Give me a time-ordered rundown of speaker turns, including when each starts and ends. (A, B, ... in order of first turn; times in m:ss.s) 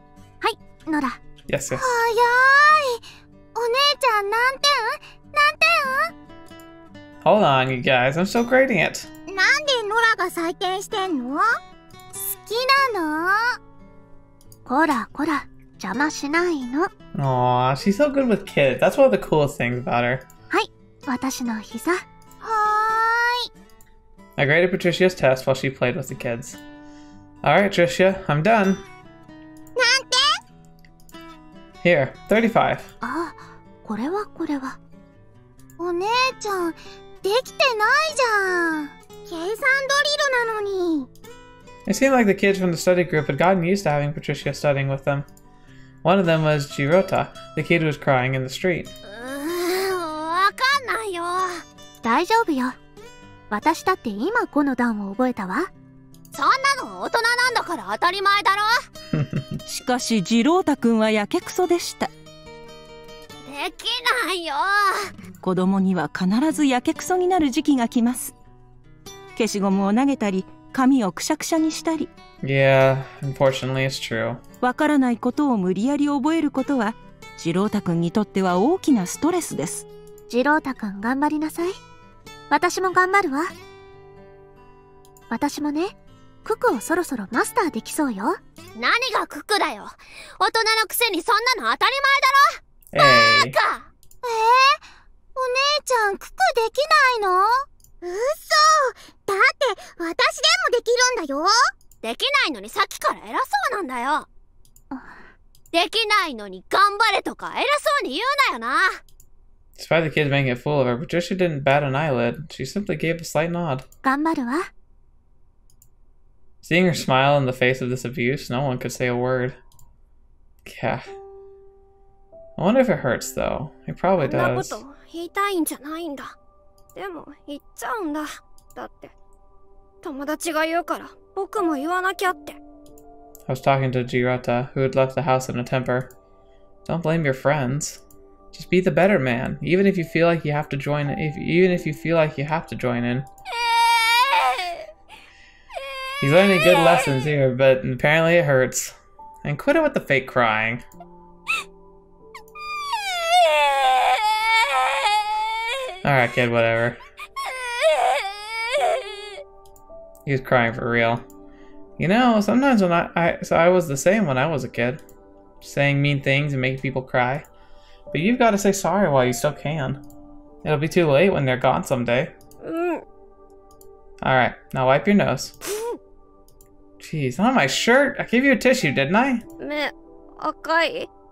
0:00.4-0:01.2 A
0:01.5-0:01.9 B
0:01.7-0:03.0 C
0:03.5-0:06.1 C
0:07.2-0:09.1 B
0:09.3-0:11.4 C
0:12.2-0:13.4 C
0:14.6-0:16.9 A
0:17.1-0:20.2 B
0:20.5-0:22.0 A
0:22.4-0:23.5 C
0:24.4-0:26.6 B
0:27.4-0:28.8 B
0:29.8-0:30.3 C
0:31.8-0:32.9 B
0:33.0-0:34.8 A
0:35.8-0:41.1 C
0:41.8-0:45.2 B
0:46.0-0:48.9 B
0:49.0-0:51.6 D
0:52.0-0:52.8 A
0:53.5-0:55.7 A
0:56.3-0:58.8 D
0:59.1-0:59.6 B
0:59.7-1:02.1 E
1:03.4-1:05.1 D
1:05.4-1:08.3 E
1:09.3-1:12.1 E
1:12.4-1:14.4 B
1:14.6-1:19.8 E
1:20.3-1:21.8 A
1:22.5-1:23.5 A
1:25.3-1:28.4 A
1:28.8-1:33.8 D
1:32.9-1:33.6 B
1:34.2-1:34.8 C
1:35.4-1:41.5 C
1:42.0-1:44.3 D
1:44.9-1:45.2 A
1:45.7-1:49.0 D
1:49.8-1:53.8 B
1:54.0-1:54.7 A
1:56.6-1:59.6 B
2:00.6-2:01.0 B
2:02.6-2:04.8 B
2:04.2-2:06.3 D
2:06.9-2:09.1 D
2:10.0-2:12.6 D
2:13.5-2:16.1 B
2:16.8-2:18.0 B
2:18.5-2:23.3 B
2:23.5-2:24.9 D
2:26.2-2:30.8 B
2:26.6-2:27.1 D
2:32.9-2:35.6 D
2:36.0-2:37.0 B
2:37.4-2:39.3 D
2:40.2-2:41.2 B
2:42.0-2:45.0 B
2:45.6-2:47.4 B
2:48.1-2:50.0 B
2:50.6-2:52.3 B
2:52.6-2:53.0 D
2:54.2-2:55.6 B
2:57.0-2:59.4 B
2:59.6-3:01.1 D